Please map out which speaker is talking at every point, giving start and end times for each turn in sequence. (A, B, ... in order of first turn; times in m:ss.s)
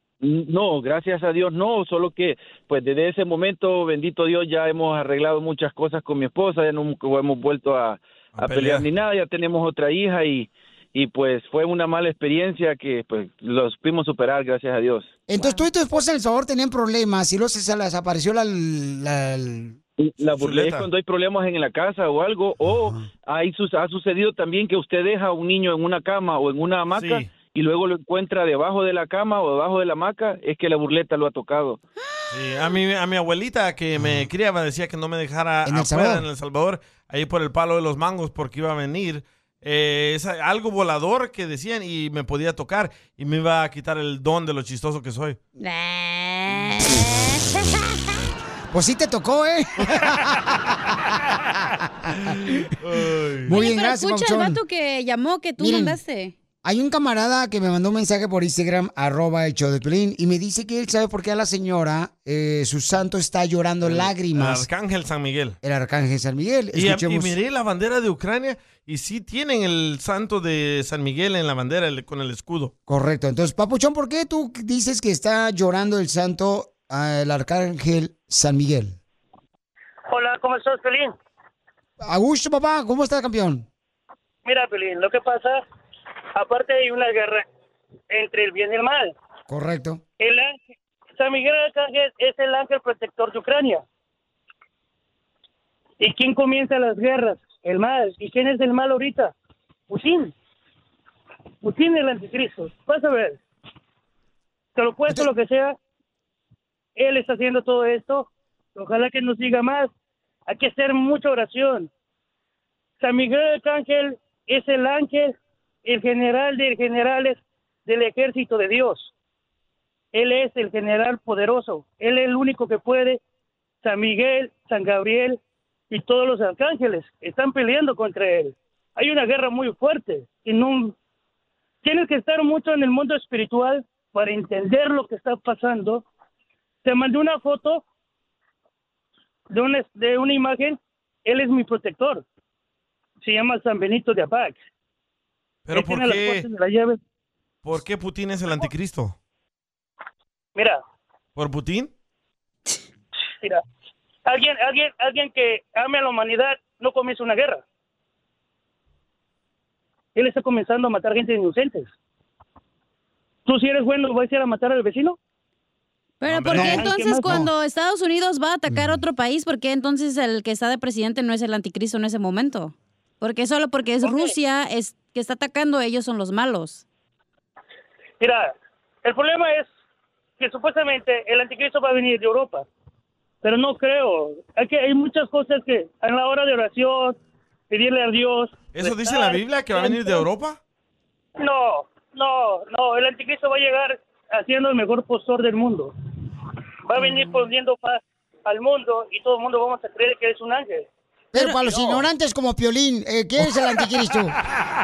0:00.2-0:15.1 A
0:08.4-0:08.9 B
0:15.3-0:19.8 C
0:20.0-0:31.8 A
0:20.4-0:20.9 B
0:22.6-0:23.0 C
0:26.9-0:27.3 B
0:32.3-0:45.4 B
0:34.0-0:34.3 C
0:35.7-0:36.3 C
0:45.6-0:47.7 D
0:48.7-0:52.6 C
0:52.8-0:53.5 B
0:53.4-0:54.6 C
0:53.5-0:56.3 D
0:55.6-0:56.0 C
0:56.6-1:04.7 C
1:03.8-1:05.6 B
1:05.6-1:07.4 C
1:06.7-1:12.7 B
1:12.9-1:19.0 C
1:20.1-1:21.1 E
1:22.0-1:23.7 C
1:24.4-1:25.6 E
1:26.4-1:27.4 E
1:28.1-1:29.1 E
1:29.5-1:30.0 C
1:30.2-1:30.6 E
1:31.2-1:33.8 E
1:36.0-1:39.3 E
1:39.9-1:40.3 E
1:41.6-1:43.4 E
1:44.8-1:45.8 E
1:47.0-1:49.9 E
1:50.5-1:51.9 E
1:53.0-1:59.1 E
2:00.1-2:03.2 E
2:03.8-2:05.4 E
2:05.9-2:11.0 E
2:11.8-2:16.0 E
2:16.8-2:17.8 E
2:19.5-2:22.2 E
2:23.2-2:24.6 E
2:25.7-2:26.5 B
2:25.7-2:27.0 E
2:27.6-2:29.2 B
2:31.4-2:31.9 B
2:34.3-2:37.6 E
2:40.2-2:41.9 E
2:43.5-2:45.2 E
2:46.2-2:56.8 D
2:46.3-2:46.9 B
2:46.5-2:47.5 C
2:46.8-2:47.3 E
2:48.7-2:49.0 C
2:54.0-2:54.3 E
2:58.2-2:59.7 E
3:00.4-3:02.6 E
3:03.4-3:07.2 E
3:07.7-3:10.3 E
3:08.7-3:10.6 B
3:11.4-3:15.9 E
3:16.9-3:20.9 E
3:17.0-3:17.4 D
3:21.3-3:24.4 C
3:21.4-3:22.0 D